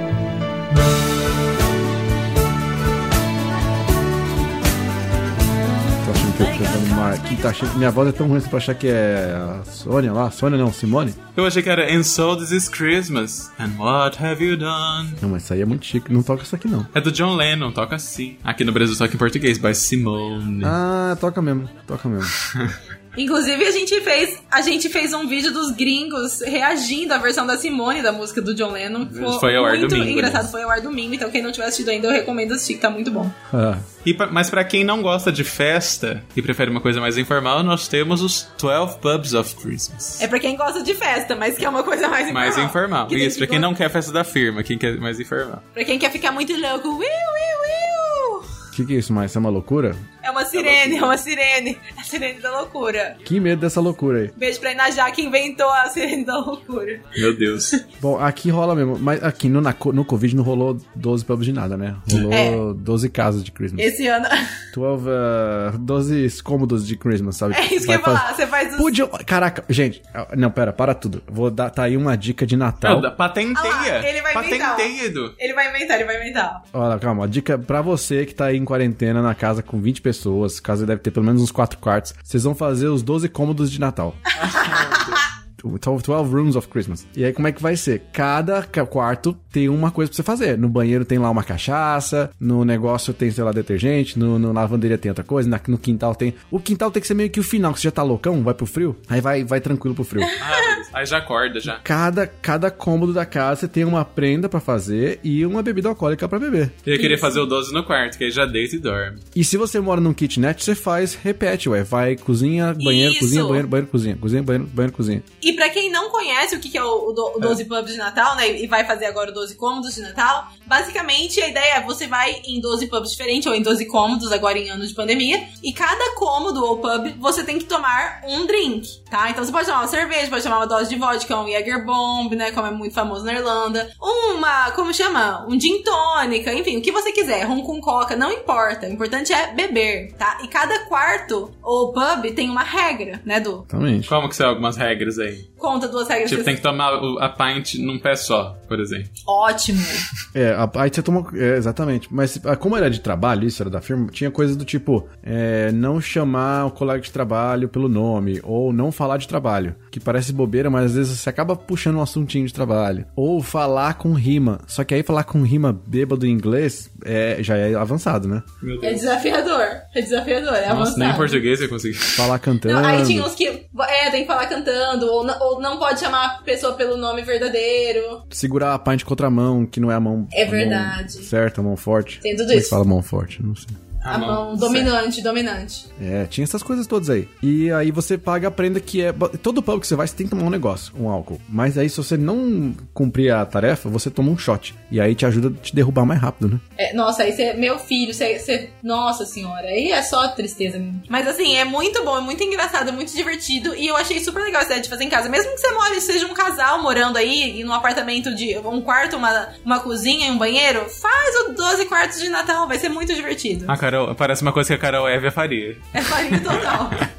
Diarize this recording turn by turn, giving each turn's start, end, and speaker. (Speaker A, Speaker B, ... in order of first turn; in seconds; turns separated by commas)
Speaker A: 6.0-11.2, Speaker B: 11.3-15.2, Speaker A: 15.2-16.9, Speaker B: 16.9-20.8, Speaker A: 20.6-22.3, Speaker B: 22.4-22.7, Speaker C: 23.1-33.3, Speaker B: 29.1-30.5, Speaker A: 33.5-33.9, Speaker B: 34.0-40.2, Speaker C: 40.2-43.7, Speaker B: 42.3-45.6, Speaker C: 45.7-48.5, Speaker A: 48.7-50.0, Speaker C: 50.2-53.2, Speaker B: 50.5-51.2, Speaker A: 53.2-54.3, Speaker C: 54.4-57.1, Speaker B: 57.1-57.8, Speaker A: 58.0-63.9, Speaker C: 62.3-62.6, Speaker C: 63.8-64.5, Speaker A: 64.7-73.1, Speaker C: 67.5-68.9, Speaker B: 72.8-75.3, Speaker C: 73.5-76.6, Speaker A: 76.7-84.2, Speaker B: 84.3-85.3, Speaker C: 84.5-85.0, Speaker A: 85.6-100.4, Speaker B: 100.4-101.8, Speaker A: 101.8-106.8, Speaker B: 106.8-109.2, Speaker C: 106.9-107.4, Speaker A: 109.3-115.2, Speaker C: 112.8-113.7, Speaker C: 115.4-143.7, Speaker A: 143.7-144.1, Speaker B: 144.1-145.5, Speaker C: 145.6-146.5, Speaker B: 146.3-149.1, Speaker C: 149.2-150.0, Speaker A: 150.3-168.5, Speaker B: 168.6-169.1, Speaker C: 168.8-171.4, Speaker B: 170.7-172.3, Speaker A: 172.2-173.3, Speaker C: 172.6-178.2, Speaker A: 178.3-183.8, Speaker C: 180.3-181.3, Speaker C: 182.2-182.8, Speaker B: 184.0-184.9, Speaker C: 184.1-185.8, Speaker A: 186.0-196.6, Speaker C: 196.8-213.7, Speaker B: 213.7-216.6, Speaker C: 215.9-217.0